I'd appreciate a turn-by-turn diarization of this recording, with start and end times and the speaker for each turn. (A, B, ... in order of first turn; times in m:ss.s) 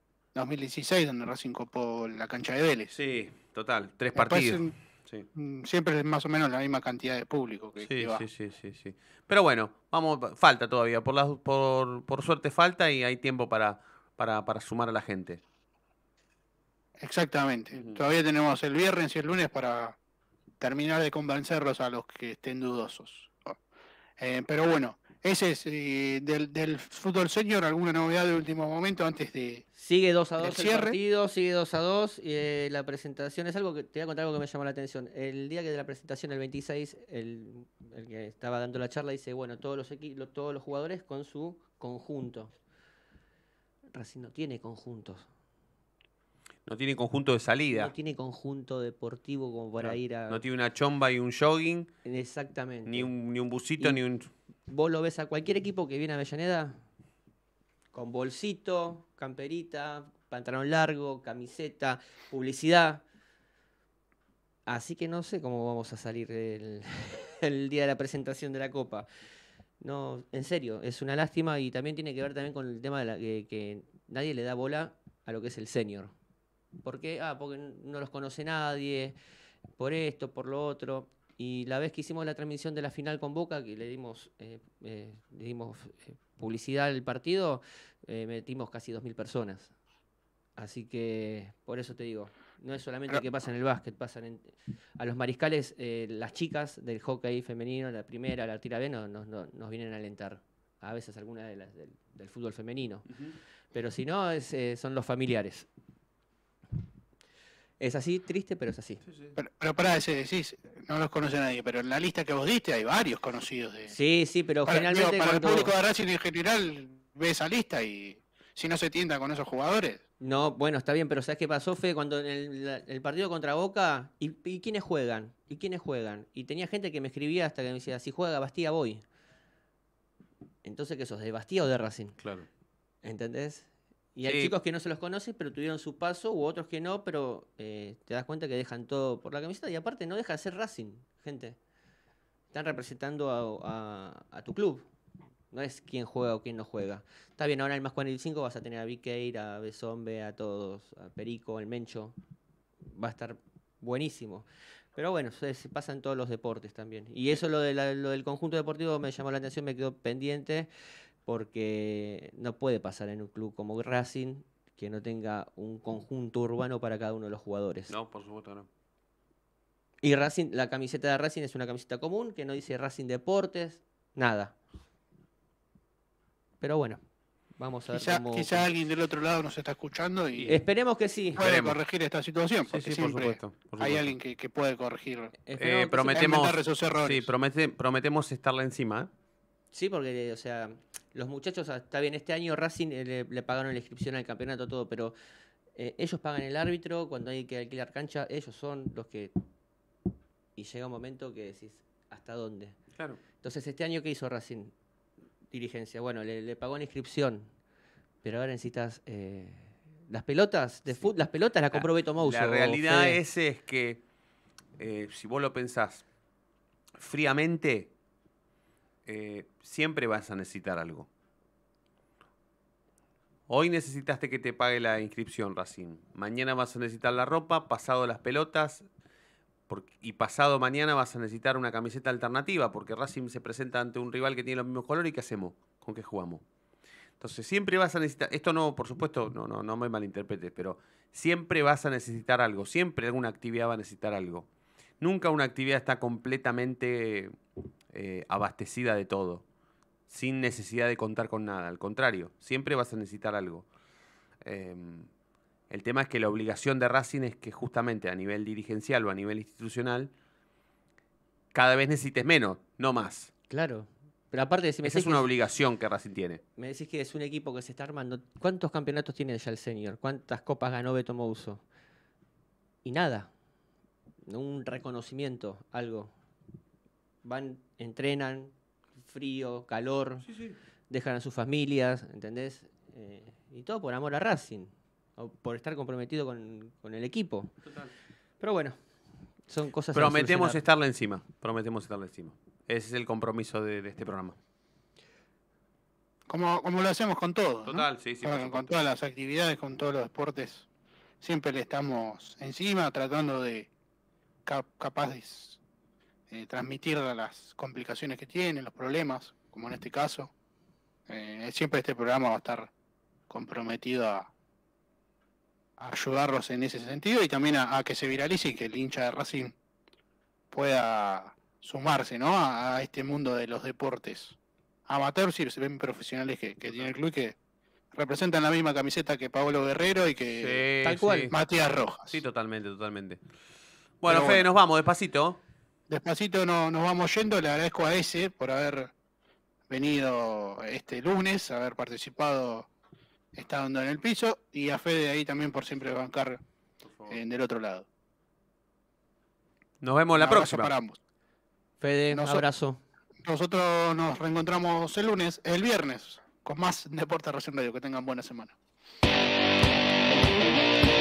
0:00.4-0:02.9 A
0:02.9-0:05.3 B
0:04.1-0:04.8 A
0:05.3-0:08.3 A
0:07.8-0:15.4 B
0:17.0-0:20.0 A
0:17.7-0:18.0 B
0:20.6-0:23.5 A
0:24.2-0:29.6 A
0:29.8-0:42.5 C
0:30.4-0:31.0 A
0:43.9-0:45.3 C
0:46.7-0:47.9 B
0:47.7-0:50.4 C
0:49.8-0:51.9 B
0:52.0-0:53.1 C
0:52.9-0:54.3 B
0:54.7-0:56.8 C
0:57.9-1:03.0 C
1:04.7-1:09.1 C
1:09.8-1:16.1 C
1:16.8-1:19.2 C
1:19.8-1:29.7 C
1:30.6-1:43.1 C
1:43.1-1:43.4 B
1:43.7-1:45.7 C
1:47.8-1:49.0 C
1:49.1-1:49.3 B
1:49.4-1:54.0 A
1:53.9-1:55.7 C
1:54.6-2:00.0 A
2:00.2-2:09.0 C
2:10.6-2:12.2 C
2:12.2-2:12.5 B
2:13.0-2:21.6 C
2:14.2-2:14.5 B
2:22.5-2:24.8 C
2:25.5-2:32.2 C
2:32.8-2:40.7 C
2:41.3-2:47.9 C
2:47.9-2:48.7 B
2:50.0-2:54.5 C
2:56.6-2:57.0 C
2:57.6-2:58.7 C
2:57.9-3:00.6 A
3:00.5-3:01.4 C
3:01.4-3:01.8 B
3:01.4-3:05.3 A
3:02.7-3:04.1 B
3:05.4-3:06.4 C
3:05.6-3:09.1 B
3:06.1-3:07.3 A
3:09.7-3:15.2 C
3:15.8-3:19.3 C
3:20.6-3:22.8 C
3:23.4-3:24.7 C
3:25.5-3:27.5 C
3:28.2-3:33.2 C
3:31.7-3:34.0 B
3:34.8-3:36.0 B
3:37.0-3:37.9 B
3:39.1-3:41.1 B
3:43.5-3:48.8 B
3:49.7-3:56.4 B
3:57.2-4:04.5 B
4:05.0-4:07.4 B
4:07.9-4:09.4 B
4:10.1-4:13.7 B
4:14.4-4:15.1 B
4:15.7-4:20.1 B
4:21.5-4:23.3 B
4:23.5-4:25.3 C
4:24.8-4:26.4 B
4:26.6-4:31.6 C
4:32.8-4:33.3 C
4:34.3-4:36.1 C
4:37.2-4:40.2 C
4:40.2-4:40.6 B
4:40.9-4:47.6 C
4:47.6-4:47.9 B
4:48.4-4:48.8 C
4:49.5-4:50.6 C
4:49.9-4:54.4 B
4:56.3-5:00.7 A
4:57.7-4:58.8 B
5:01.2-5:03.7 A
5:04.5-5:05.6 A
5:06.3-5:10.3 A
5:11.1-5:12.7 A
5:13.3-5:14.3 A
5:15.8-5:19.5 A
5:20.5-5:24.4 A
5:24.9-5:27.4 A
5:26.6-5:26.9 B
5:27.9-5:30.7 A
5:30.4-5:31.4 B
5:30.8-5:31.3 C
5:31.3-5:32.2 A
5:32.1-5:33.2 B
5:34.0-5:35.4 B
5:34.1-5:34.5 A
5:35.9-5:38.9 A
5:39.7-5:42.7 A
5:43.3-5:46.4 A
5:46.8-5:47.2 B
5:47.1-5:47.9 A
5:49.8-5:50.7 B
5:50.2-5:51.0 A
5:51.8-5:52.8 C
5:52.1-5:52.5 A
5:53.2-5:58.5 A